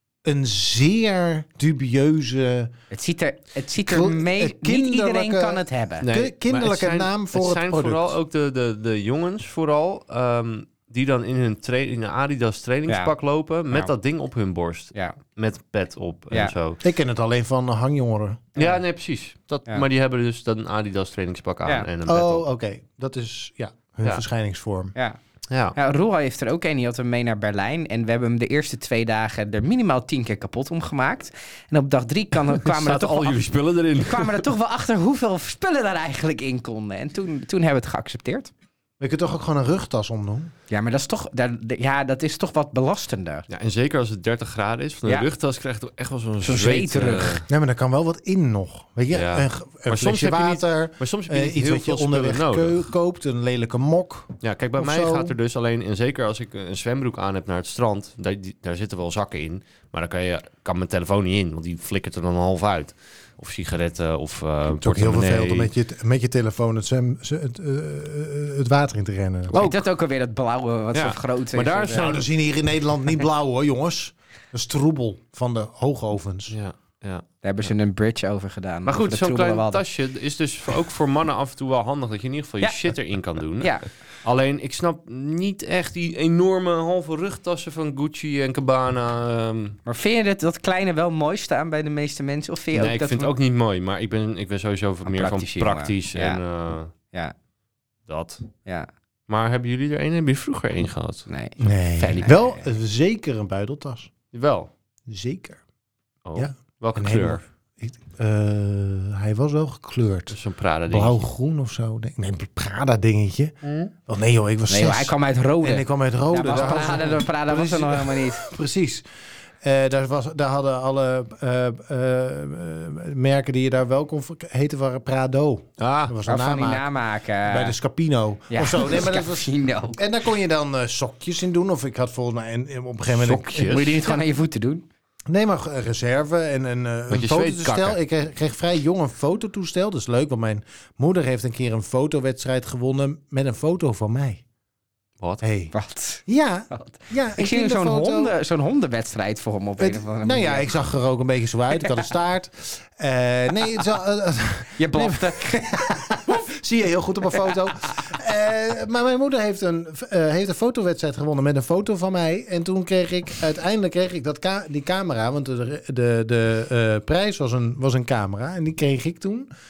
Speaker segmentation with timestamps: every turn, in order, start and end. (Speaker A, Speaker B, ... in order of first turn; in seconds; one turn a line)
Speaker A: 0.2-2.7
Speaker B: 2.9-6.1
Speaker A: 3.8-8.2
Speaker C: 6.0-16.8
Speaker B: 12.9-13.1
Speaker A: 16.8-18.5
Speaker B: 18.5-18.8
Speaker C: 18.6-22.4
Speaker A: 22.0-24.9
Speaker C: 25.5-25.8
Speaker B: 25.8-38.5
Speaker C: 32.6-34.5
Speaker A: 39.0-40.5
Speaker B: 40.7-43.5
Speaker C: 43.5-47.5
Speaker B: 46.4-47.4
Speaker A: 47.5-55.3
Speaker C: 49.1-52.9
Speaker C: 54.4-65.7
Speaker A: 64.8-69.7
Speaker B: 69.5-72.1
Speaker C: 70.9-72.2
Speaker A: 72.0-76.5
Speaker C: 76.5-77.7
Speaker B: 77.4-79.8
Speaker C: 78.8-89.8
Speaker B: 82.6-82.9
Speaker B: 83.6-83.9
Speaker B: 89.8-93.3
Speaker C: 92.7-96.9
Speaker B: 95.0-96.4
Speaker B: 96.9-97.3
Speaker C: 98.1-98.4
Speaker C: 99.3-101.3
Speaker B: 101.3-102.6
Speaker A: 101.6-104.1
Speaker C: 104.3-104.7
Speaker A: 105.1-105.6
Speaker C: 106.2-107.4
Speaker A: 106.4-110.3
Speaker C: 110.3-111.3
Speaker A: 110.9-113.5
Speaker C: 113.6-113.9
Speaker A: 114.0-119.0
Speaker B: 114.7-118.4
Speaker A: 119.6-126.8
Speaker C: 125.8-126.1
Speaker B: 126.2-127.8
Speaker A: 127.5-134.2
Speaker B: 128.5-130.0
Speaker C: 133.1-133.9
Speaker B: 133.6-134.8
Speaker A: 135.3-144.4
Speaker C: 137.1-138.0
Speaker A: 145.4-145.7
Speaker B: 145.7-150.8
Speaker A: 146.3-148.3
Speaker A: 149.8-169.5
Speaker B: 154.8-156.3